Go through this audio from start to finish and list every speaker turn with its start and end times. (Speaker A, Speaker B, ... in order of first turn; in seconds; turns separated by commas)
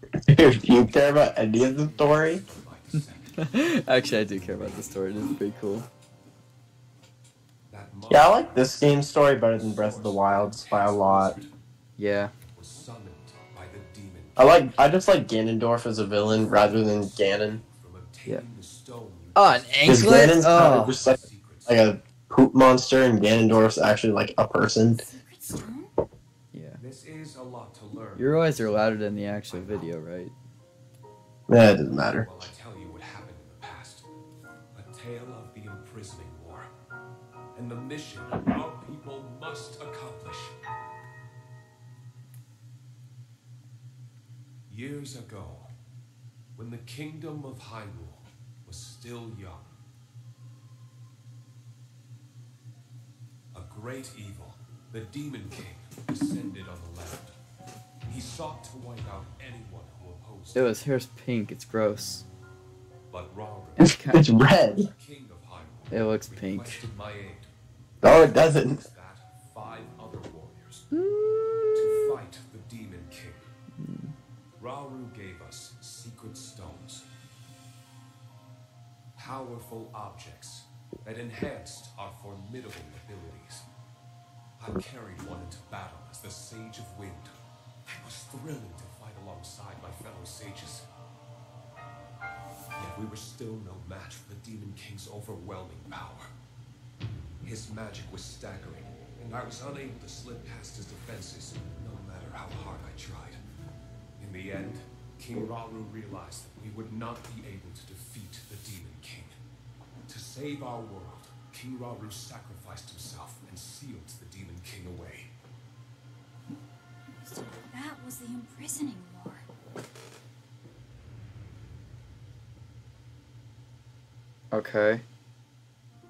Speaker A: 0.3-2.4, Speaker B: 1.6-5.2, Speaker C: 3.4-5.9, Speaker B: 7.7-11.5, Speaker A: 8.1-11.3, Speaker C: 12.0-12.3, Speaker B: 12.5-14.6, Speaker A: 14.4-17.6, Speaker B: 16.2-21.9, Speaker C: 19.4-20.9, Speaker A: 19.9-25.1, Speaker D: 24.9-25.9, Speaker C: 26.5-26.8, Speaker B: 26.8-29.9, Speaker C: 28.2-30.3, Speaker A: 31.5-32.5, Speaker B: 31.6-34.1, Speaker B: 34.7-36.7, Speaker B: 37.5-40.6, Speaker B: 44.7-45.7, Speaker B: 46.6-49.8, Speaker B: 53.5-57.4, Speaker B: 58.1-60.7, Speaker C: 60.5-62.2, Speaker B: 63.1-67.5, Speaker A: 63.8-64.9, Speaker C: 63.8-64.3, Speaker C: 65.9-66.8, Speaker A: 68.0-68.8, Speaker B: 68.0-70.9, Speaker C: 70.9-72.1, Speaker B: 71.8-73.5, Speaker C: 73.8-74.1, Speaker B: 74.6-77.0, Speaker B: 79.2-83.7, Speaker B: 84.6-90.9, Speaker B: 92.8-96.3, Speaker B: 97.4-103.4, Speaker B: 104.2-109.3, Speaker B: 110.1-115.3, Speaker D: 117.2-119.5, Speaker C: 124.5-125.0